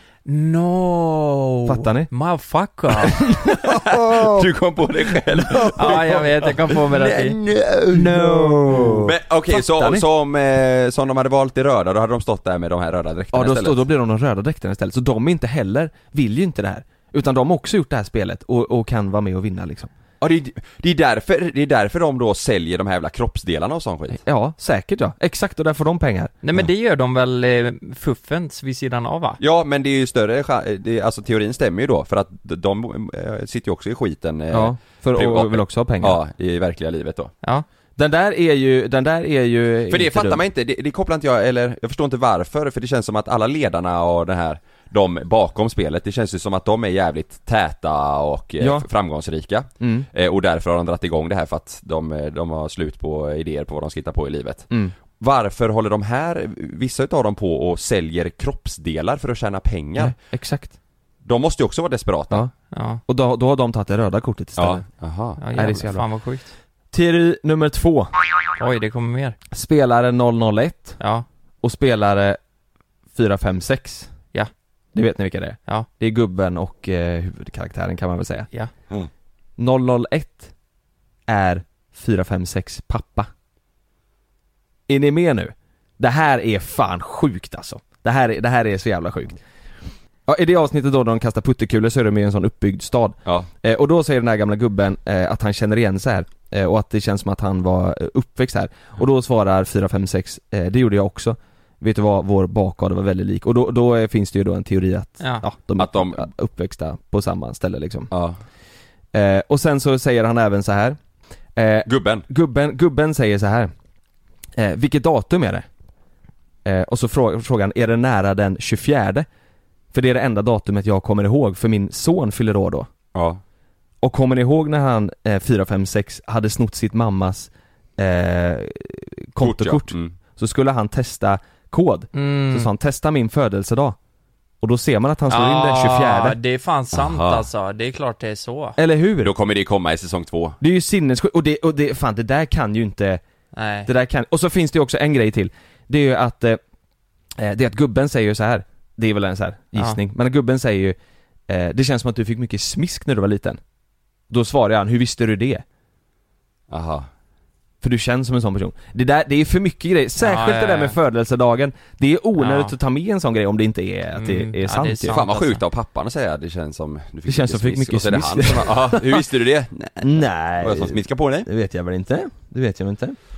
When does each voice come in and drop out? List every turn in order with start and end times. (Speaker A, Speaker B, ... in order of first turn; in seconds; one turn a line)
Speaker A: 0.2-3.2
Speaker B: 1.6-2.1
Speaker B: 3.1-4.5
Speaker C: 3.5-13.8
Speaker B: 5.1-6.3
Speaker A: 5.8-7.4
Speaker B: 7.9-10.1
Speaker B: 13.3-19.9
Speaker C: 20.2-24.2
Speaker B: 24.1-26.3
Speaker A: 26.4-29.4
Speaker C: 29.4-37.3
Speaker B: 34.5-36.2
Speaker B: 38.0-40.4
Speaker C: 39.9-60.1
Speaker B: 48.6-48.9
Speaker B: 49.8-50.1
Speaker B: 60.0-60.7
Speaker C: 61.2-62.5
Speaker A: 62.7-63.0
Speaker B: 63.1-64.9
Speaker C: 64.6-65.4
Speaker A: 65.4-66.5
Speaker B: 65.5-66.0
Speaker B: 66.9-68.1
Speaker A: 68.6-69.4
Speaker B: 69.5-71.0
Speaker A: 71.0-71.2
Speaker B: 71.6-72.4
Speaker B: 73.1-74.1
Speaker B: 74.9-78.5
Speaker B: 79.6-80.5
Speaker B: 81.3-83.3
Speaker B: 84.9-89.4
Speaker B: 90.3-108.1
Speaker C: 105.8-106.3
Speaker C: 108.1-108.4
Speaker B: 109.1-111.0
Speaker B: 111.6-113.7
Speaker C: 111.8-112.2
Speaker B: 114.5-115.7
Speaker B: 116.6-119.3
Speaker B: 119.9-122.9
Speaker C: 123.1-123.4
Speaker B: 124.0-134.0
Speaker C: 129.4-130.1
Speaker A: 132.1-132.7
Speaker B: 134.6-136.4
Speaker A: 135.3-138.8
Speaker C: 136.9-137.4
Speaker B: 138.8-139.3
Speaker C: 139.2-140.6
Speaker B: 140.6-143.2
Speaker A: 143.6-143.9
Speaker B: 143.9-146.6
Speaker B: 147.4-151.0
Speaker B: 151.5-153.6
Speaker B: 154.3-155.6
Speaker C: 156.7-157.1
Speaker B: 157.8-165.2
Speaker A: 160.2-161.0
Speaker A: 162.4-162.7
Speaker A: 164.2-165.6
Speaker C: 165.1-171.5
Speaker B: 167.2-169.2
Speaker B: 170.0-173.2